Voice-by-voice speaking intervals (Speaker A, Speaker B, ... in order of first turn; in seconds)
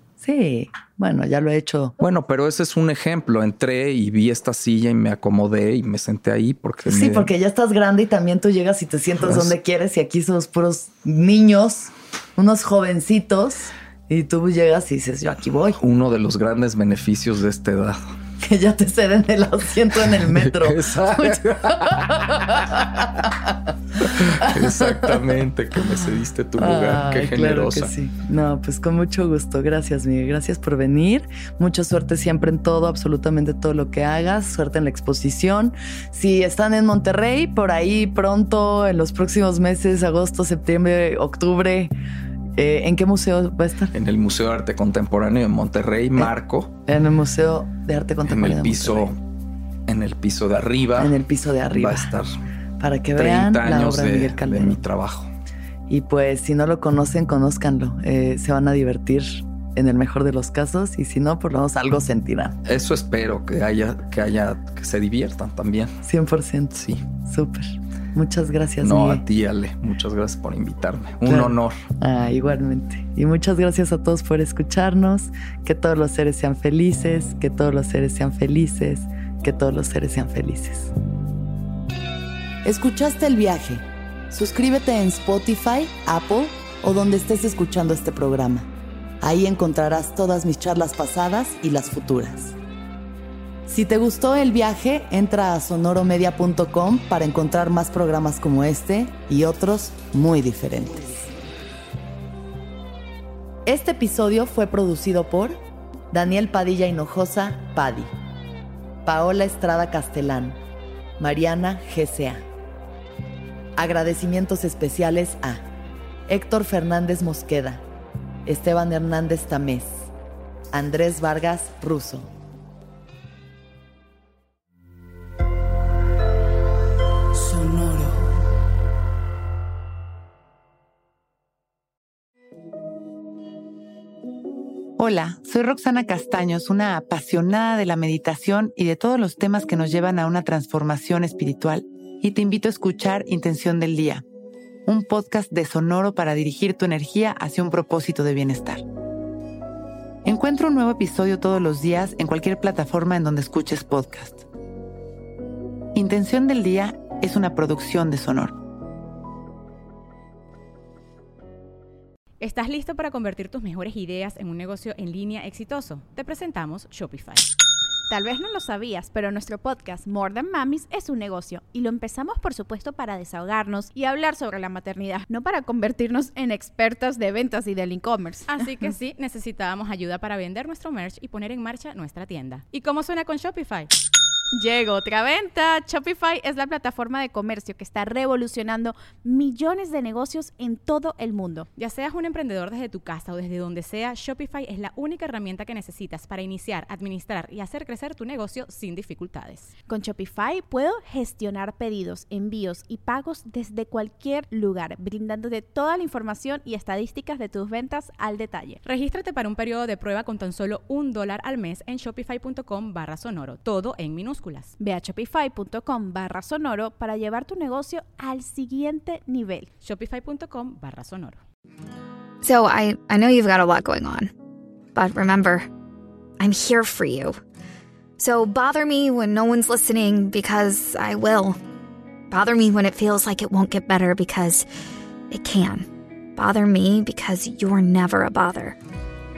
Speaker A: 0.2-1.9, 6.8-15.8, 18.4-25.3, 26.6-41.9, 42.6-43.9, 46.9-49.1, 51.0-52.1, 52.8-54.8, 55.9-62.6, 66.0-69.2, 71.2-80.9, 82.6-88.7, 89.2-92.5, 93.7-101.3, 103.7-105.6, 106.1-108.1, 109.0-110.6, 111.2-112.5, 113.8-115.6, 116.3-117.8, 118.5-120.1, 120.7-122.3
Speaker B: 2.0-7.3, 9.2-9.5, 15.8-18.0, 20.2-23.2, 24.0-27.9, 43.9-46.8, 48.2-49.2, 49.9-52.3, 53.1-55.3, 62.6-65.9, 66.7-67.0, 68.8-71.8
Speaker C: 127.4-128.1, 135.0-144.2, 144.8-148.8, 150.2-154.4, 155.9-158.6
Speaker D: 162.4-167.5, 178.5-183.9, 191.8-199.7, 208.8-214.7, 219.8-221.4
Speaker E: 168.1-178.5, 184.5-191.7, 199.9-208.8, 214.8-219.7
Speaker F: 222.4-224.3, 224.9-225.7, 226.4-227.4, 228.2-231.6, 232.3-234.7, 235.3-238.8